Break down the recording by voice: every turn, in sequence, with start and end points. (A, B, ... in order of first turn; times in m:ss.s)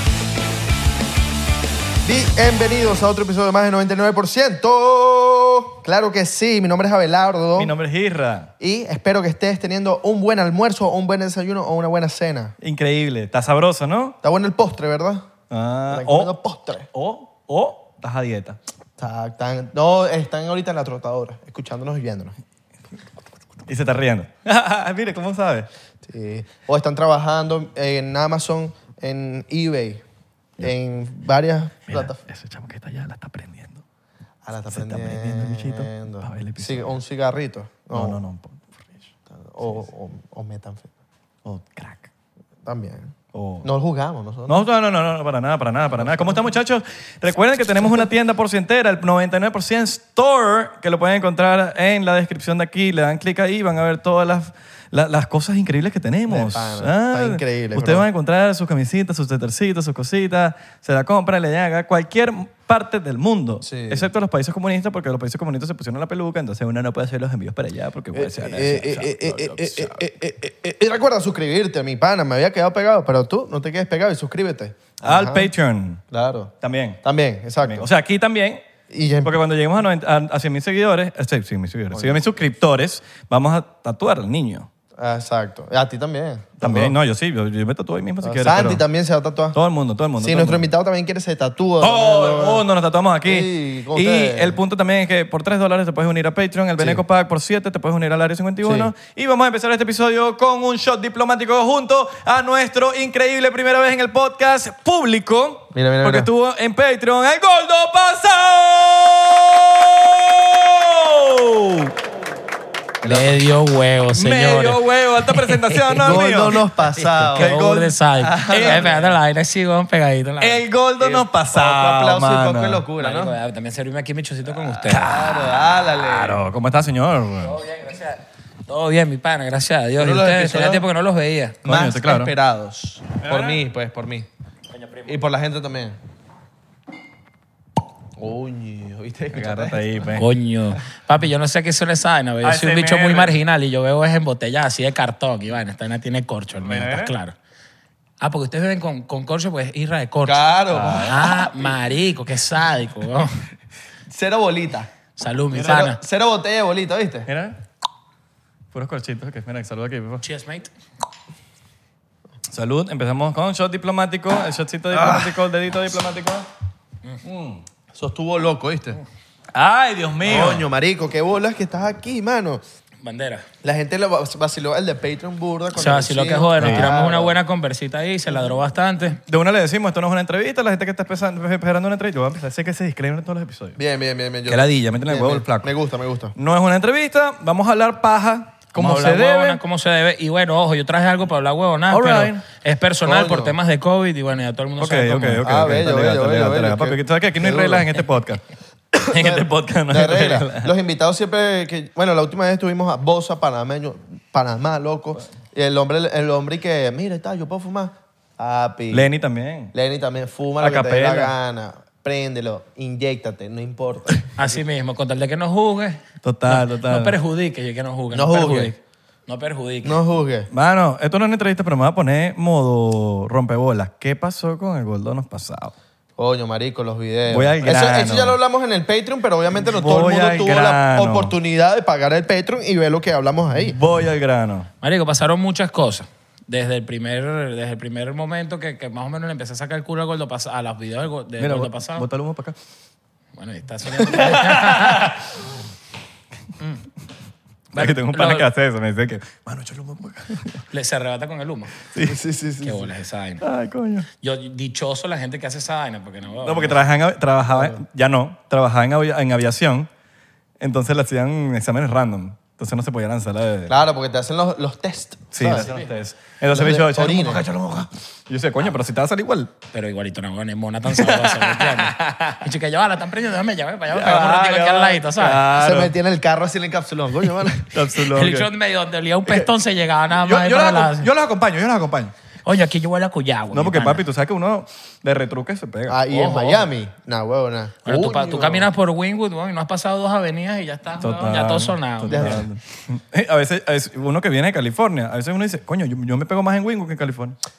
0:02.0-0:07.7 A
0:07.6-0:08.5 B
0:08.6-0:12.6 A
0:12.6-0:14.2 B
0:14.2-0:15.3 A
0:15.5-0:16.3 B
0:15.9-0:16.9 A
0:16.9-0:18.6 B
0:19.0-0:22.4 A
0:23.7-0:25.7 B
0:26.0-0:30.0 A
0:30.6-0:32.2 A
0:31.9-0:33.8 B
0:34.4-0:38.2 A
0:34.7-0:37.0 B
0:37.9-0:38.9 B
0:39.3-0:40.9 A
0:41.4-0:42.1 B
0:42.7-0:44.7 A
0:43.3-0:43.7 B
0:44.5-1:10.0 B
0:46.0-0:46.5 A
0:47.8-0:48.1 A
0:56.3-0:58.1 A
1:03.6-1:04.1 A
1:08.1-1:15.5 A
1:15.0-1:16.0 B
1:16.1-1:17.9 A
1:16.6-1:17.0 B
1:17.6-1:18.6 B
1:18.9-1:19.4 A
1:19.2-1:24.7 B
1:21.9-1:22.2 A
1:25.0-1:27.0 A
1:26.6-1:28.8 B
1:28.2-1:29.6 A
1:29.5-1:30.6 B
1:30.2-1:32.6 A
1:31.8-1:51.9 B
1:33.2-1:34.6 A
1:38.6-1:38.9 A
1:45.7-1:46.3 A
1:53.0-1:56.2 C
1:54.1-1:56.6 B
1:56.0-1:57.5 A
1:56.8-2:00.6 C
1:57.4-1:59.2 B
1:58.6-1:59.0 A
2:00.4-2:02.8 B
2:01.0-2:03.3 A
2:03.0-2:05.1 C
2:04.5-2:07.6 B
2:04.9-2:06.4 A
2:07.4-2:11.6 C
2:10.0-2:10.9 A
2:11.6-2:14.3 A
2:11.6-2:12.3 B
2:13.2-2:13.6 B
2:14.7-2:15.2 C
2:15.1-2:16.0 A
2:18.2-2:20.0 A
2:19.3-2:20.3 B
2:20.2-2:27.4 C
2:22.4-2:23.4 B
2:26.6-2:27.1 B
2:28.2-2:33.4 C
2:30.2-2:31.7 A
2:30.7-2:31.3 B
2:34.1-2:34.9 A
2:35.2-2:36.0 C
2:35.5-2:37.3 A
2:37.3-2:37.6 B
2:38.7-2:40.2 B
2:40.2-2:40.7 C
2:42.5-2:46.5 B
2:44.9-2:45.3 A
2:47.2-2:47.6 B
2:48.0-2:49.0 A
2:49.5-2:50.6 B
2:50.2-2:52.6 A
2:53.0-2:53.5 C
2:53.6-2:57.4 A
2:55.7-2:59.2 C
2:59.3-3:03.8 B
3:03.8-3:06.3 A
3:04.5-3:05.7 B
3:06.4-3:09.6 B
3:08.8-3:15.4 C
3:11.9-3:12.4 B
3:13.0-3:13.6 A
3:14.8-3:18.4 B
3:15.4-3:17.9 A
3:19.0-3:20.7 B
3:19.1-3:29.1 A
3:28.9-3:29.7 B
3:29.7-3:34.5 A
3:30.6-3:31.3 B
3:34.4-3:40.0 C
3:36.2-3:37.2 B
3:38.1-3:38.7 A
3:39.8-3:40.5 A
3:40.5-3:45.7 B
3:46.2-3:53.8 A
3:47.3-3:48.4 B
3:49.7-3:51.3 B
3:53.6-3:54.7 B
3:54.8-4:02.1 C
4:01.4-4:02.6 B
4:03.4-4:05.3 C
4:04.0-4:05.3 B
4:06.6-4:06.8 C
4:07.7-4:10.6 B
4:07.8-4:08.5 C
4:10.7-4:11.7 C
4:11.9-4:12.2 B
4:12.0-4:12.9 A
4:12.6-4:13.4 C
4:13.4-4:14.1 B
4:14.2-4:16.8 C
4:16.4-4:19.9 B
4:17.5-4:17.8 A
4:20.6-4:23.7 B
4:23.7-4:25.7 A
4:25.3-4:29.5 B
4:25.5-4:25.9 C
4:26.5-4:27.4 A
4:29.7-4:35.4 C
4:31.0-4:32.4 B
4:33.9-4:35.9 B
4:35.6-4:37.7 A
4:37.7-4:38.5 B
4:38.1-4:41.1 C
4:40.1-4:42.1 B
4:42.4-4:44.0 C
4:43.5-4:46.0 B
4:45.9-4:48.7 A
4:46.1-4:46.7 C
4:47.8-4:52.4 C
4:51.0-4:57.4 B
4:52.1-4:52.4 A